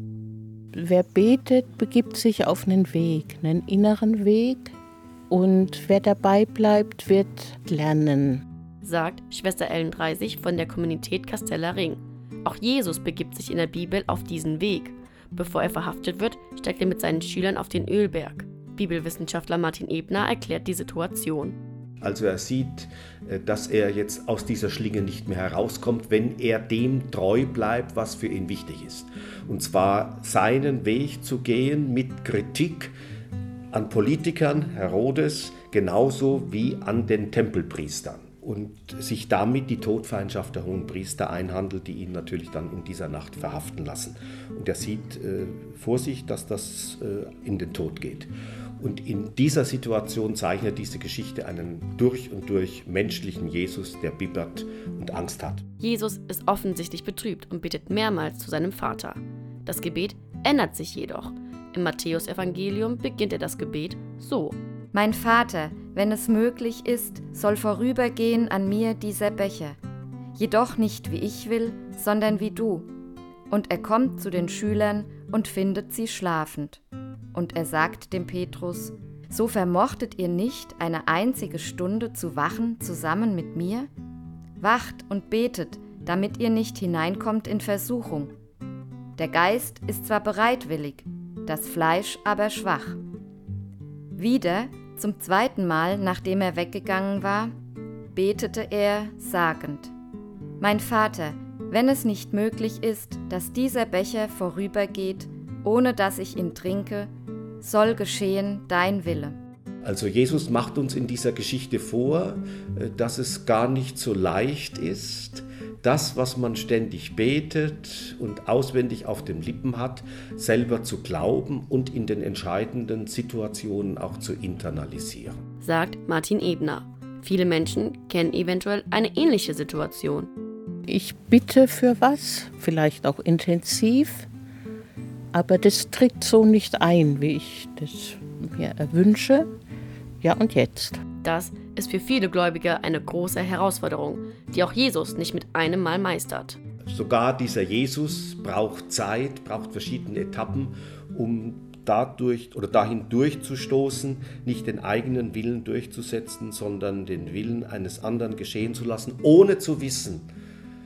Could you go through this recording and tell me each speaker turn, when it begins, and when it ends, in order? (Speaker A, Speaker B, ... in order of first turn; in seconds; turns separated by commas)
Speaker A: 0.7-4.8, Speaker A: 5.3-8.4, Speaker B: 8.8-21.6, Speaker C: 22.0-32.9, Speaker C: 33.7-55.6, Speaker B: 55.8-64.6, Speaker D: 64.9-69.8, Speaker D: 70.3-72.9, Speaker D: 73.5-76.8, Speaker D: 77.3-83.9, Speaker D: 84.6-88.3, Speaker D: 89.2-93.0, Speaker D: 94.2-97.5, Speaker D: 98.1-99.9, Speaker D: 100.6-107.1, Speaker D: 107.6-109.4, Speaker C: 109.8-125.3, Speaker B: 125.6-130.3, Speaker A: 130.9-134.3, Speaker A: 135.3-139.5, Speaker A: 140.2-141.0, Speaker B: 141.2-146.6, Speaker C: 146.9-160.3